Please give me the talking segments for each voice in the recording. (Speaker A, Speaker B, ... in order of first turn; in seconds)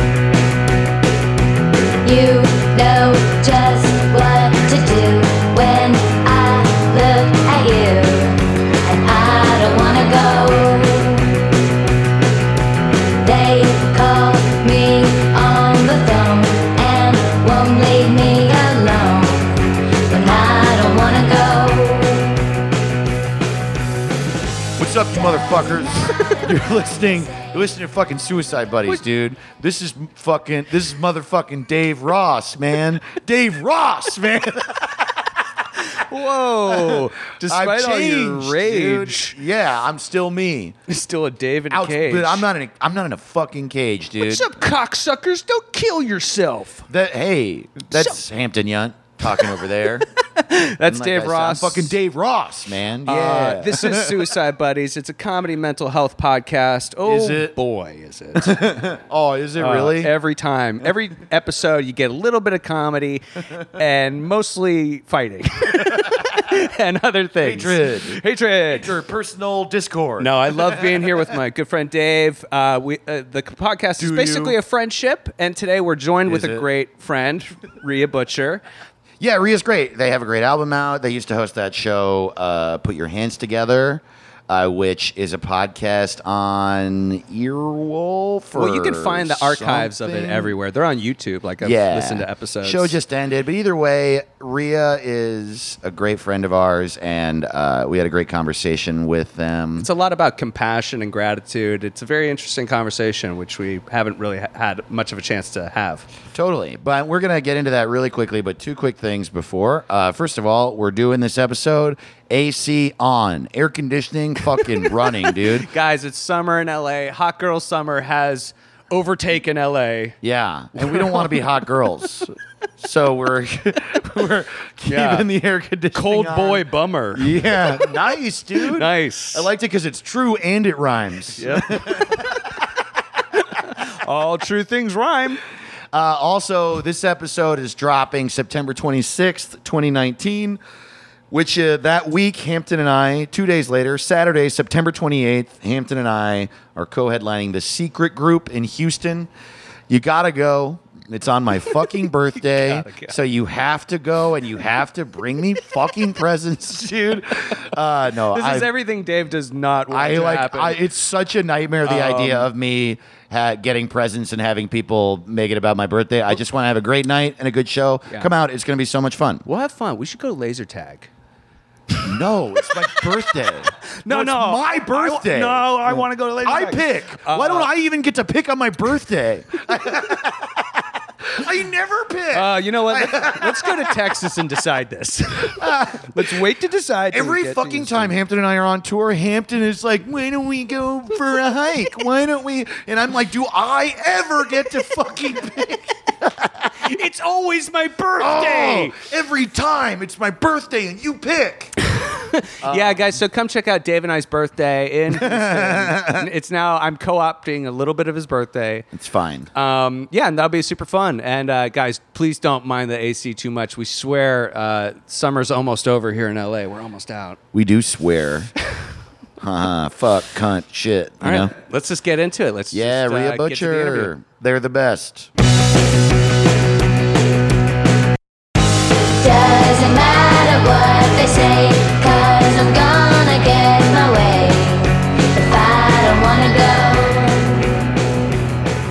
Speaker A: 2.0-11.3, 13.2-22.4, 25.3-27.5, 229.2-237.6
Speaker B: 24.8-35.6, 36.7-40.8, 41.7-44.6, 46.9-50.1, 50.9-54.3, 57.0-57.5, 58.3-60.1, 67.4-68.2, 68.7-71.2, 74.0-74.6, 76.3-76.6, 79.2-90.5, 91.6-99.9, 106.3-115.7, 120.2-132.4, 135.9-140.6, 141.3-149.3, 149.9-158.7, 159.9-169.4, 172.0-184.1, 185.6-186.3, 187.1-196.8, 198.2-201.7, 202.6-203.1, 205.1-206.3, 208.9-209.5, 217.5-218.5, 219.4-221.5, 222.7-225.3
Speaker C: 35.9-39.4, 40.9-42.5, 44.2-46.8, 49.2-51.9, 53.0-58.7, 59.6-69.0, 70.2-78.6, 88.5-93.0, 99.8-106.1, 115.3-120.2, 120.8-121.5, 124.8-125.3, 125.9-127.9, 128.6-129.5, 131.4-132.4, 133.3-135.4, 152.5-153.1, 158.3-160.8, 161.8-162.5, 169.4-171.1, 174.0-177.7, 182.3-188.1, 196.8-198.9, 201.9-208.9, 209.5-217.4, 221.2-224.1